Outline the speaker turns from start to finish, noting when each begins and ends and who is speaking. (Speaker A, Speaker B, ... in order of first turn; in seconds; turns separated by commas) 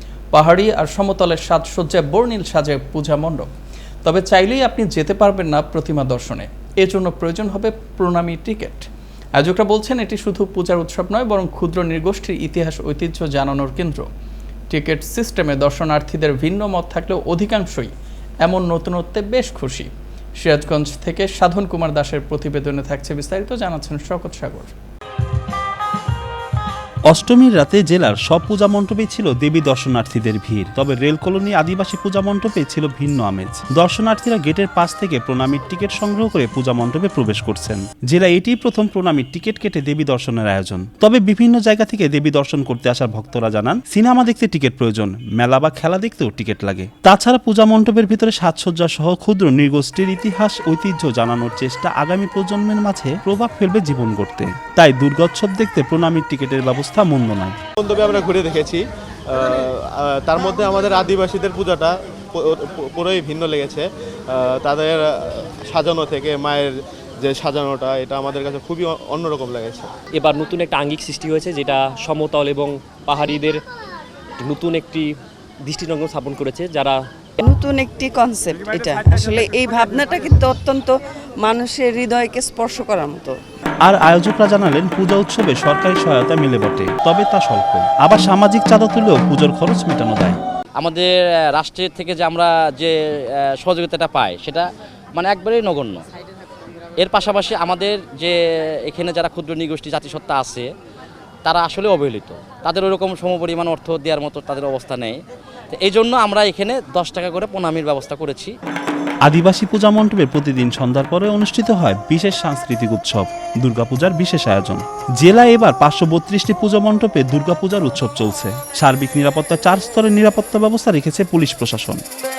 Speaker A: 0.3-3.5, Speaker A: 4.0-14.1, Speaker A: 14.7-17.9, Speaker A: 18.4-24.8, Speaker B: 27.1-57.6, Speaker C: 57.8-66.7, Speaker C: 67.2-69.9, Speaker D: 70.2-73.6, Speaker D: 74.4-75.1, Speaker D: 75.7-77.0, Speaker E: 77.4-83.4, Speaker B: 83.8-90.4, Speaker F: 90.8-92.9, Speaker F: 93.6-96.0, Speaker F: 97.0-98.4, Speaker F: 98.9-100.7, Speaker F: 101.5-105.2, Speaker F: 105.7-108.5, Speaker B: 109.3-122.0